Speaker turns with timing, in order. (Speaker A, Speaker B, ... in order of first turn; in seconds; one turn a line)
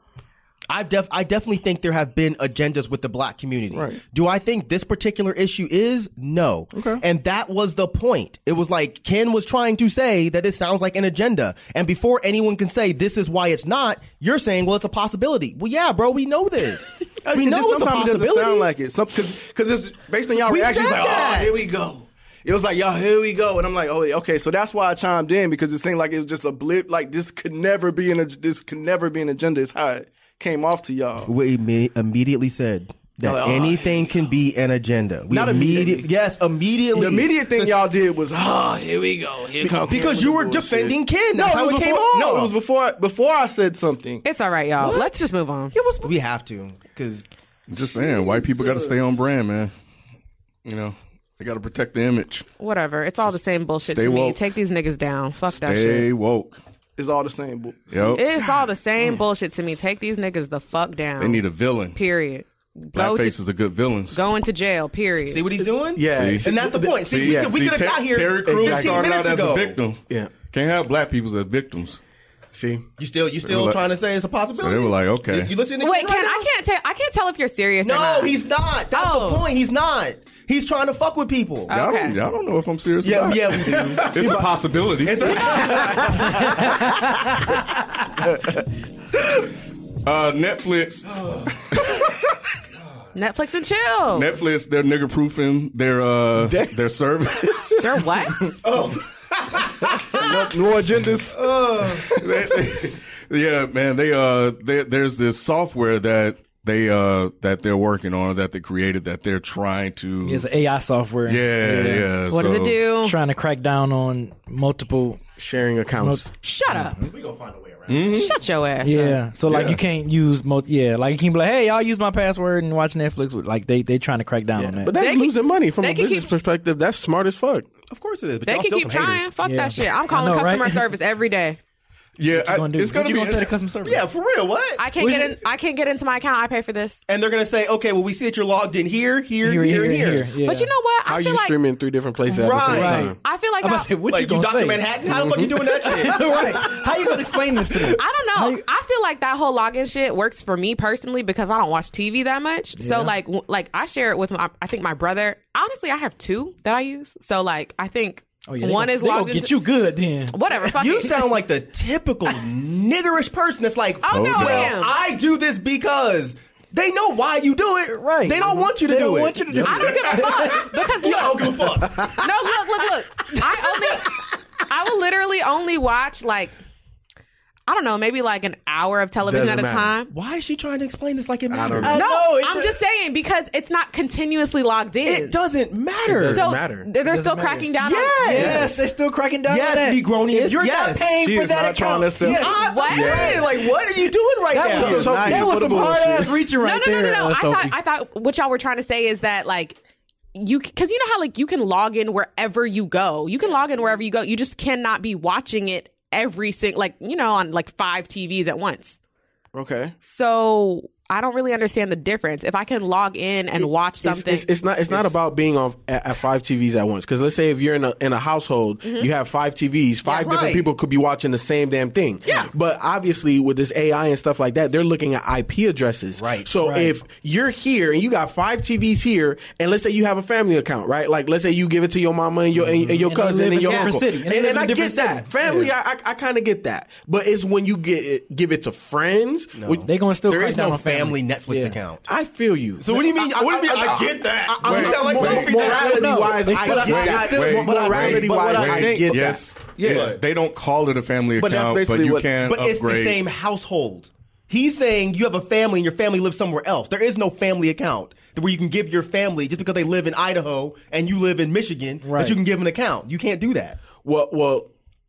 Speaker A: 0.7-18.7
Speaker B: 3.7-4.0
Speaker B: 6.7-7.0
Speaker B: 17.2-31.3
Speaker A: 20.4-21.6
Speaker C: 20.8-21.5
Speaker A: 31.2-37.8
Speaker B: 33.2-34.1
Speaker B: 35.3-36.0
Speaker B: 36.9-44.2
Speaker A: 39.8-42.5
Speaker D: 44.2-45.8
Speaker A: 44.8-45.1
Speaker B: 45.8-46.1
Speaker A: 46.0-47.2
Speaker E: 47.7-49.7
Speaker B: 48.2-48.9
Speaker E: 50.6-52.5
Speaker D: 52.6-56.1
Speaker E: 53.9-54.4
Speaker E: 55.5-56.6
Speaker B: 57.0-58.7
Speaker E: 57.9-58.2
Speaker D: 58.1-63.4
Speaker E: 61.2-62.0
Speaker E: 62.9-64.2
Speaker D: 64.1-65.5
Speaker A: 65.3-69.8
Speaker F: 65.9-67.5
Speaker E: 66.1-72.0
Speaker F: 68.5-69.2
Speaker F: 72.5-72.8
Speaker A: 73.0-76.5
Speaker E: 73.4-73.8
Speaker E: 74.5-75.5
Speaker D: 75.8-79.5
Speaker A: 77.8-81.8
Speaker D: 81.7-82.2
Speaker E: 81.7-86.4
Speaker A: 83.0-87.5
Speaker E: 90.0-91.9
Speaker A: 91.1-91.5
Speaker D: 93.1-94.3
Speaker E: 94.1-98.0
Speaker F: 96.4-96.7
Speaker D: 97.8-98.5
Speaker A: 98.6-100.2
Speaker B: 100.1-102.6
Speaker A: 101.3-102.2
Speaker E: 102.1-110.5
Speaker C: 110.2-112.1
Speaker E: 111.2-112.8
Speaker D: 112.3-113.2
Speaker C: 113.0-115.2
Speaker F: 115.4-116.3
Speaker C: 116.0-117.0
Speaker D: 116.4-117.0
Speaker A: 117.0-118.3
Speaker E: 117.9-118.3
Speaker D: 118.1-119.2
Speaker C: 118.8-124.9
Speaker E: 119.5-119.8
Speaker F: 124.6-127.7
Speaker D: 124.9-126.3
Speaker A: 127.9-129.3
Speaker D: 128.4-131.6
Speaker C: 129.4-130.9
Speaker E: 132.2-133.5
Speaker C: 132.3-134.0
Speaker A: 133.8-134.8
Speaker D: 134.8-137.0
Speaker C: 134.9-135.4
Speaker A: 137.1-140.3
Speaker C: 139.4-140.7
Speaker D: 140.4-141.6
Speaker F: 141.1-143.2
Speaker A: 142.2-143.1
Speaker C: 142.7-144.9
Speaker D: 143.2-143.9
Speaker A: 144.1-147.8
Speaker F: 145.0-146.1
Speaker C: 145.7-148.6
Speaker D: 147.9-159.6
Speaker C: 152.8-153.1
Speaker C: 158.5-160.7
Speaker D: 160.3-161.3
Speaker A: 160.7-172.3
Speaker D: 164.0-164.9
Speaker E: 164.1-164.7
Speaker C: 167.9-170.9
Speaker D: 169.6-176.5
Speaker D: 177.7-180.1
Speaker F: 179.2-179.9
Speaker A: 180.1-182.1
Speaker F: 181.5-182.0
Speaker C: 181.8-182.7
Speaker D: 181.9-185.3
Speaker A: 185.0-186.4
Speaker F: 186.1-186.9
Speaker D: 186.3-188.7
Speaker C: 187.0-187.7
Speaker A: 187.8-188.9
Speaker C: 188.2-192.6
Speaker A: 189.4-191.2
Speaker B: 191.1-192.5
Speaker A: 192.2-195.5
Speaker D: 192.4-193.4
Speaker F: 192.9-193.4
Speaker C: 194.5-197.7
Speaker F: 194.6-196.3
Speaker B: 194.7-196.3
Speaker D: 196.6-199.8
Speaker D: 200.3-209.0
Speaker B: 209.5-209.9
Speaker D: 210.0-214.5
Speaker F: 213.6-239.9
Speaker D: 218.8-219.1
Speaker D: 220.1-220.6
Speaker A: 220.1-220.7
Speaker D: 222.2-222.5
Speaker A: 226.2-226.5
Speaker C: 226.6-226.9
Speaker C: 232.6-235.7
Speaker D: 233.6-233.9
Speaker A: 239.6-242.1
Speaker C: 239.8-241.8
Speaker F: 242.1-250.2
Speaker A: 242.8-247.1
Speaker E: 244.6-245.5
Speaker C: 245.4-248.6
Speaker E: 246.7-253.2
Speaker B: 247.9-250.1
Speaker A: 249.9-250.2
Speaker B: 251.4-252.3
Speaker A: 252.4-263.8
Speaker C: 262.0-262.4
Speaker F: 264.0-264.7